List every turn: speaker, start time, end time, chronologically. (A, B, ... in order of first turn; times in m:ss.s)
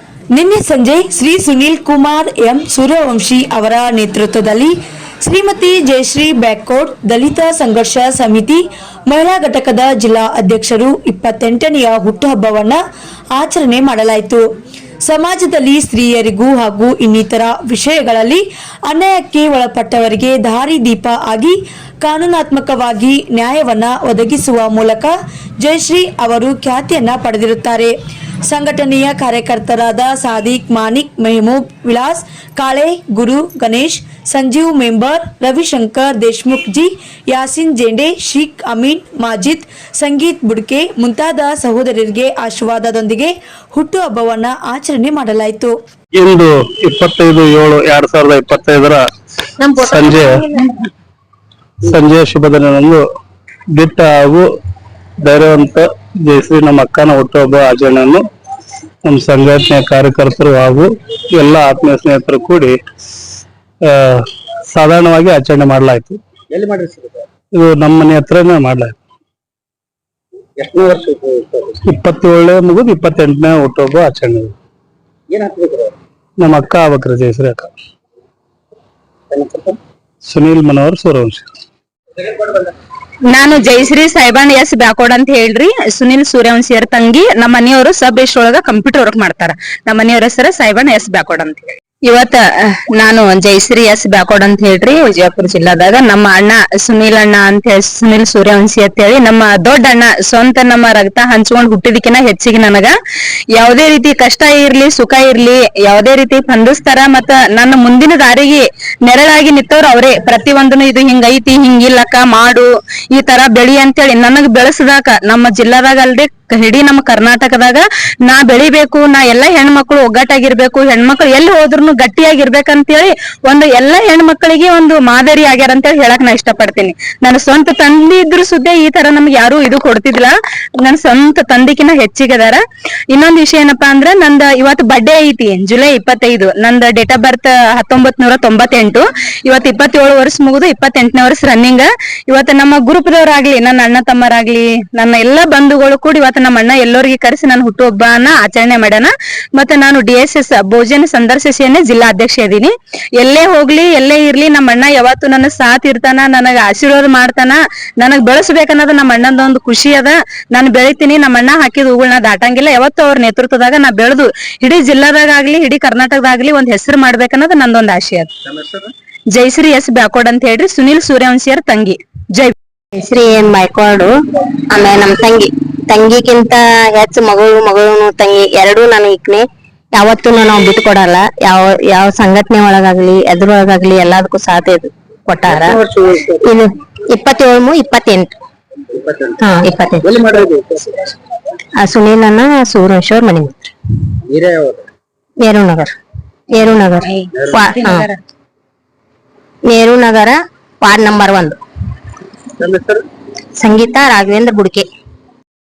0:00.3-0:12.8 A
0:13.3-0:14.4 A
0:15.0-0:27.9 A
0:28.5-0:45.8 A
0:46.2-0:49.0 B
0:49.7-0:50.5 B
0:51.8-0:53.0 B
0:53.7-0:54.4 B
0:55.2-0:58.2 B
0:59.0-1:02.7 B
1:03.8-1:06.2 B
1:06.5-1:07.2 C
1:07.5-1:08.9 B
1:10.6-1:11.8 C
1:11.8-1:14.5 B
1:15.3-1:15.9 C
1:16.4-1:17.7 B
1:19.3-1:19.8 C
1:20.3-1:21.4 B
1:23.3-1:42.9 D
1:43.6-2:10.3 D
2:10.8-2:48.3 D
2:49.3-2:52.5 D
2:53.0-2:54.1 E
2:54.7-3:05.8 E
3:05.5-3:06.3 C
3:06.4-3:08.4 E
3:08.9-3:09.5 C
3:09.4-3:10.2 E
3:10.0-3:11.0 C
3:11.8-3:13.7 E
3:14.3-3:14.8 C
3:15.4-3:15.9 E
3:16.5-3:18.1 E
3:17.0-3:18.2 D
3:19.7-3:21.6 E
3:22.6-3:22.9 B
3:23.6-3:24.9 E